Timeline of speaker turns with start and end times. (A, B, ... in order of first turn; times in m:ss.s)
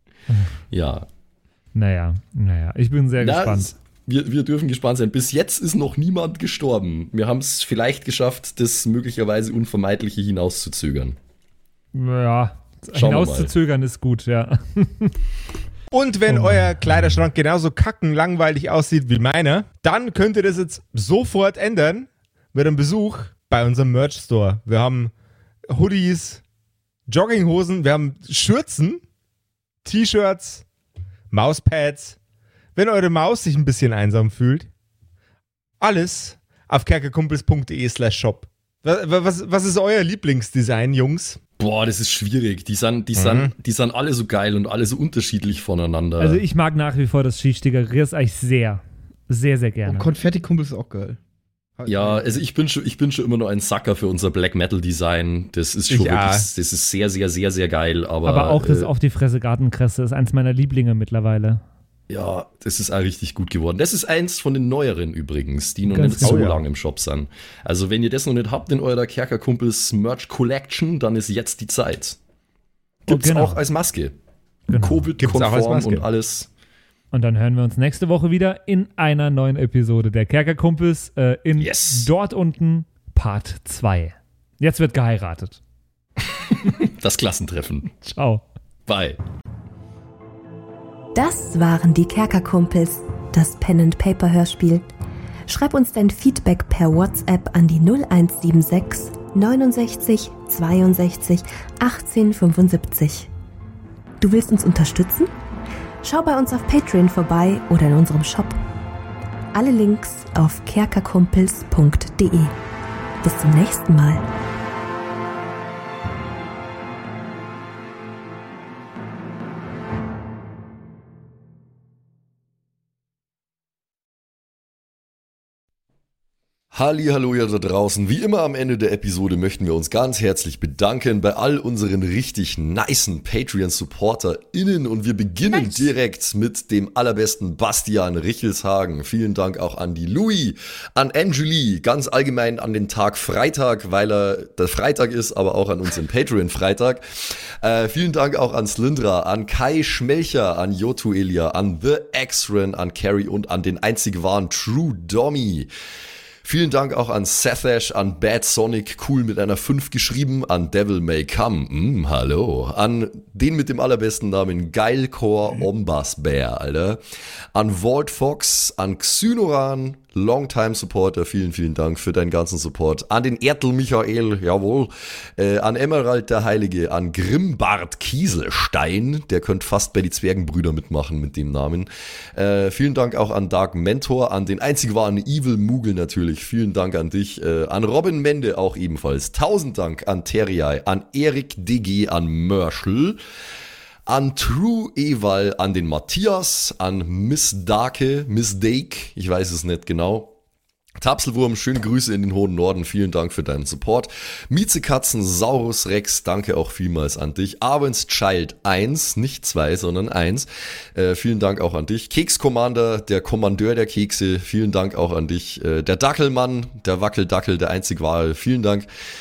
0:00.7-0:01.1 A
0:01.7-0:03.7 B
0:03.2-0:11.2 A
0:11.9-0:15.1 B
0:12.9-0:13.5 A
0:15.9-0:25.1 C
0:16.3-0:17.2 B
0:25.7-0:26.4 C
0:27.1-0:29.0 C
0:29.8-0:30.6 C
0:31.3-0:32.2 C
0:32.8-0:34.7 C
0:35.8-0:41.4 C
0:41.6-0:46.4 A
0:43.2-0:43.5 C
0:46.2-0:50.1 B
0:49.8-0:51.2 D
0:51.8-0:52.4 D
0:51.9-0:58.9 A
0:55.9-0:56.5 C
0:58.2-1:01.6 B
1:02.1-1:12.2 A
1:05.9-1:06.6 B
1:06.2-1:06.6 C
1:13.0-1:14.2 A
1:13.1-1:13.6 B
1:14.7-1:15.1 B
1:14.7-1:16.5 A
1:15.2-1:16.1 C
1:17.1-1:25.6 B
1:21.6-1:22.1 A
1:26.2-1:28.0 A
1:28.0-1:28.4 B
1:28.9-1:29.2 A
1:31.1-1:34.9 E
1:35.5-1:43.3 E
1:44.2-1:45.3 E
1:46.0-1:48.6 E
1:49.5-1:52.6 E
1:53.2-1:54.2 E
2:06.7-2:35.7 A
2:36.4-2:47.0 A
2:47.5-3:13.2 A
3:14.0-3:20.3 A
3:21.0-3:38.9 A